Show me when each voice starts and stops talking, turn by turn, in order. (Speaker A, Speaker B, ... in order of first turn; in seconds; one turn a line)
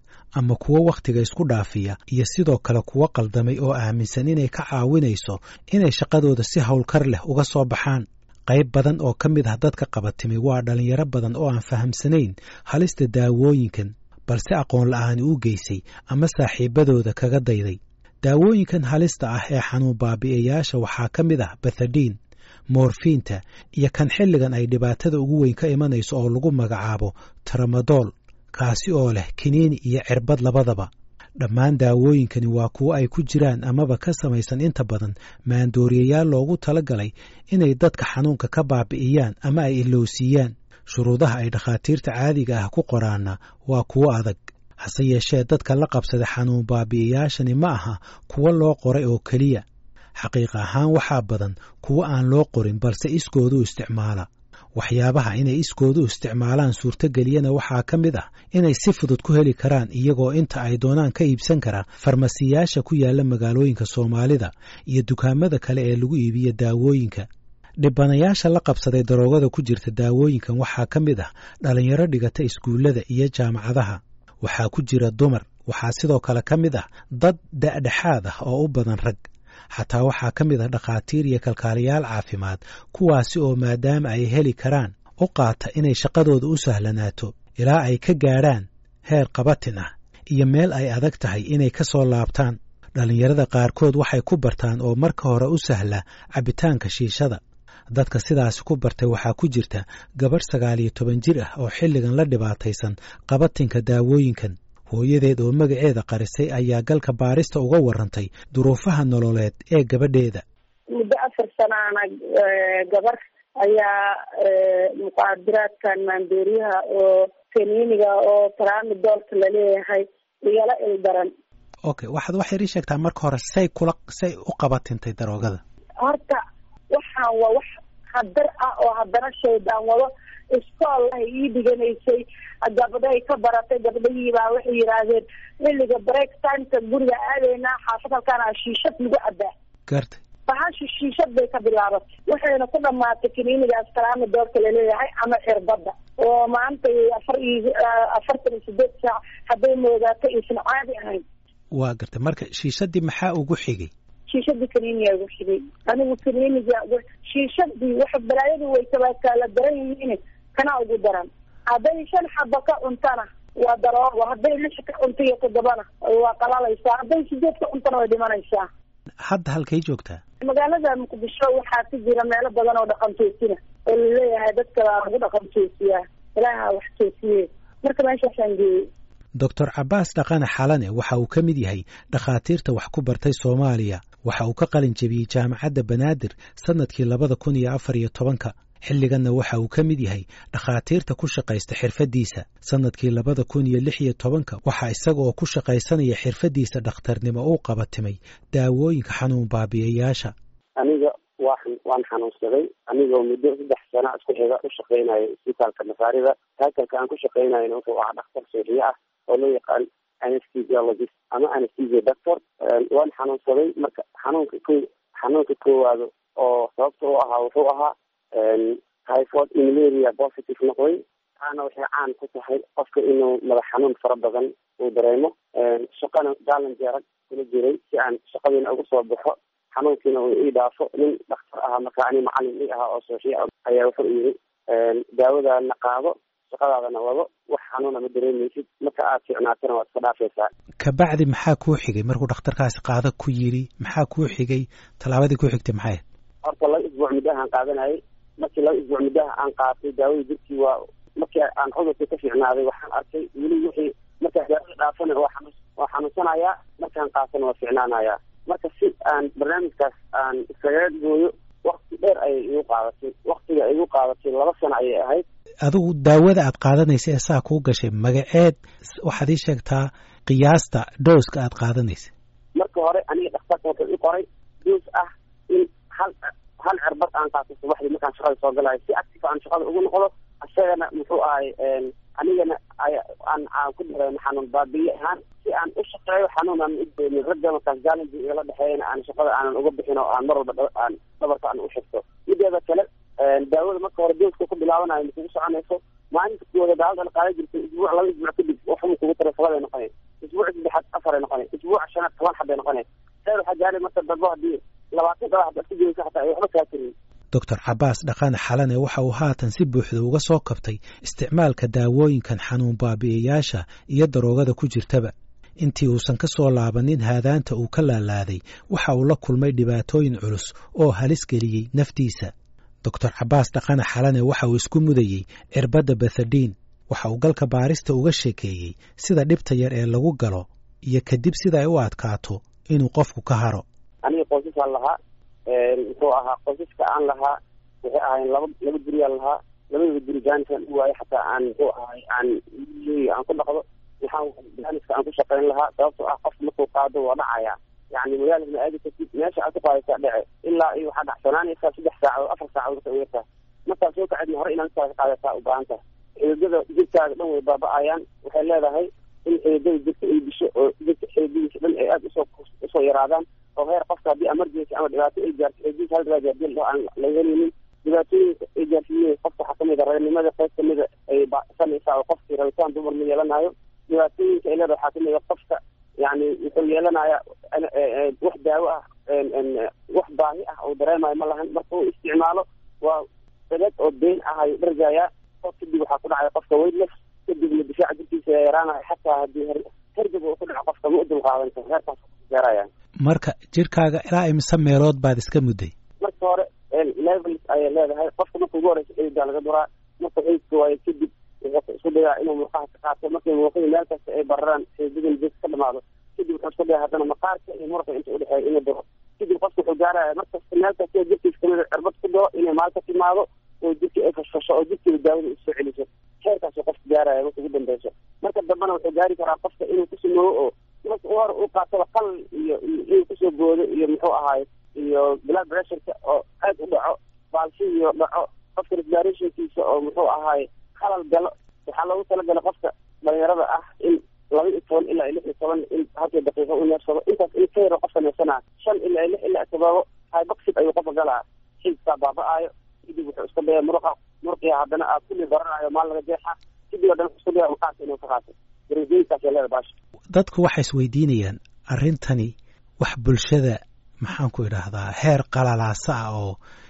Speaker A: 0.4-22.2
Speaker A: 22.7-49.6
Speaker A: 50.2-67.3
Speaker A: 67.8-97.4
Speaker A: 97.9-110.4
Speaker B: 110.9-121.3
Speaker A: 121.9-125.6
Speaker B: 126.0-126.4
Speaker B: 126.9-139.5
Speaker A: 139.9-140.2
Speaker B: 140.5-151.2
Speaker A: 151.7-153.9
Speaker B: 154.3-168.7
Speaker A: 169.2-170.2
Speaker B: 170.4-178.9
Speaker A: 179.4-200.3
Speaker C: 200.8-240.5
Speaker A: 240.8-246.0
Speaker C: 246.4-265.2
Speaker A: 265.6-272.1
Speaker C: 272.6-306.9
Speaker A: 307.3-322.3
Speaker A: 322.8-333.6
Speaker C: 334.0-392.7
Speaker A: 393.0-395.7
Speaker C: 396.0-449.7
Speaker A: 450.1-456.4